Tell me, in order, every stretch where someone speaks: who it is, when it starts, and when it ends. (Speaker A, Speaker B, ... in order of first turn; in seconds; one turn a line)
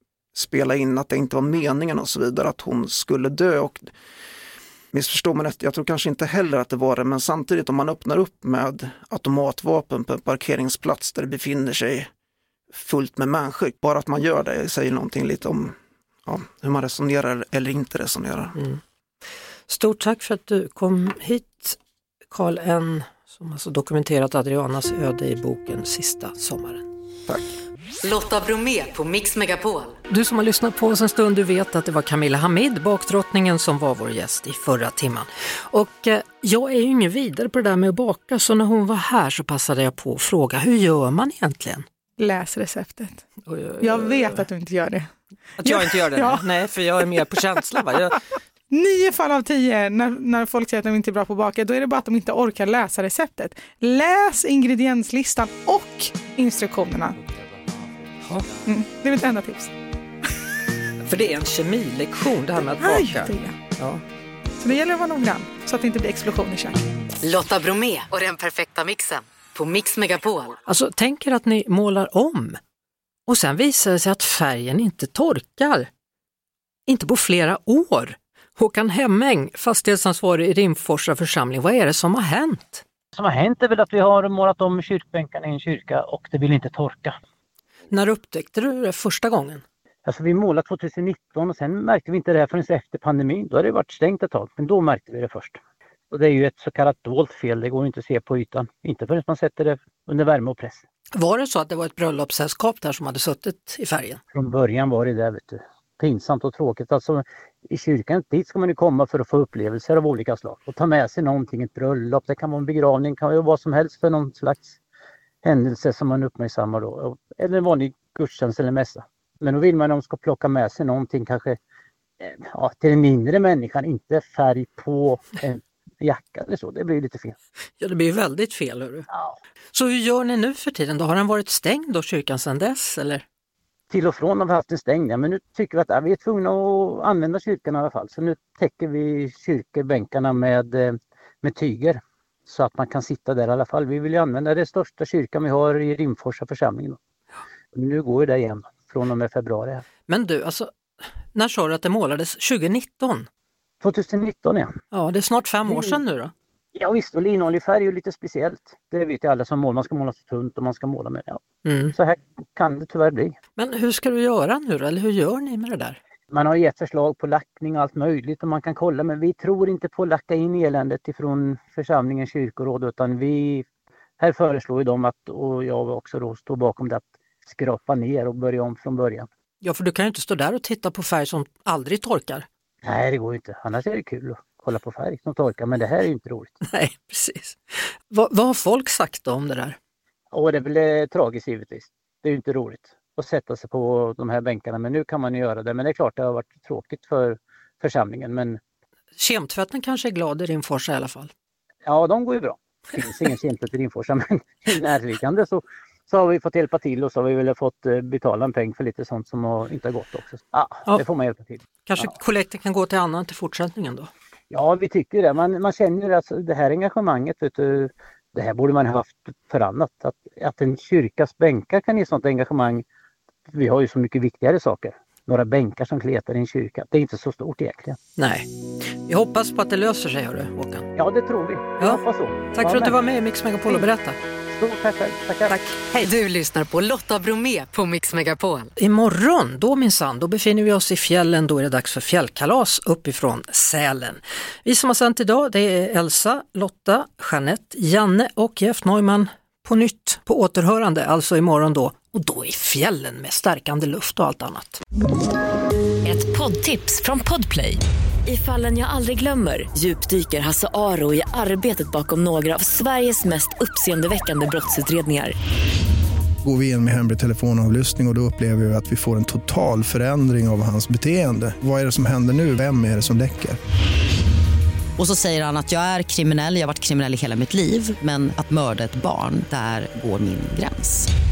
Speaker A: 0.3-3.9
Speaker A: 4.9-12.1
Speaker A: 12.7-18.6
Speaker B: 18.6-18.8
Speaker B: 19.7-21.8
Speaker B: 22.3-26.9
Speaker C: 28.0-29.9
Speaker B: 30.1-41.9
Speaker D: 42.2-43.2
Speaker B: 43.5-44.4
Speaker D: 43.8-45.1
Speaker B: 45.6-48.2
Speaker D: 45.6-46.5
Speaker D: 48.7-57.1
Speaker D: 58.6-59.7
Speaker B: 61.0-64.0
Speaker D: 62.8-63.6
Speaker D: 64.6-66.8
Speaker C: 67.2-70.6
Speaker B: 70.7-72.6
Speaker B: 73.3-75.9
Speaker B: 76.9-82.8
Speaker E: 83.1-87.2
Speaker B: 87.9-89.6
Speaker E: 90.0-95.6
Speaker E: 96.1-100.8
Speaker B: 101.1-104.2
Speaker E: 104.3-114.8
Speaker E: 115.4-121.6
Speaker E: 122.2-127.3
Speaker B: 127.8-129.1
Speaker E: 129.1-129.3
Speaker B: 129.7-133.2
Speaker E: 133.9-147.0
Speaker E: 147.7-149.8
Speaker B: 150.1-150.8
Speaker B: 151.3-153.3
Speaker E: 153.8-154.7
Speaker B: 154.9-156.3
Speaker E: 155.7-156.0
Speaker E: 156.8-163.3
Speaker B: 161.6-161.9
Speaker B: 163.6-166.0
Speaker E: 166.3-173.6
Speaker E: 174.2-179.3
Speaker B: 179.6-182.4
Speaker E: 182.8-186.5
Speaker B: 186.6-189.8
Speaker E: 190.3-198.6
Speaker B: 199.2-201.3
Speaker E: 201.8-212.1
Speaker B: 211.8-214.1
Speaker E: 214.5-222.8
Speaker E: 223.5-228.0
Speaker B: 228.2-230.9
Speaker E: 230.9-233.0
Speaker B: 232.5-234.2
Speaker E: 234.5-235.5
Speaker B: 235.5-236.1
Speaker C: 236.0-238.7
Speaker B: 238.8-254.8
Speaker F: 256.0-265.3
Speaker G: 266.4-273.6
Speaker H: 275.0-281.1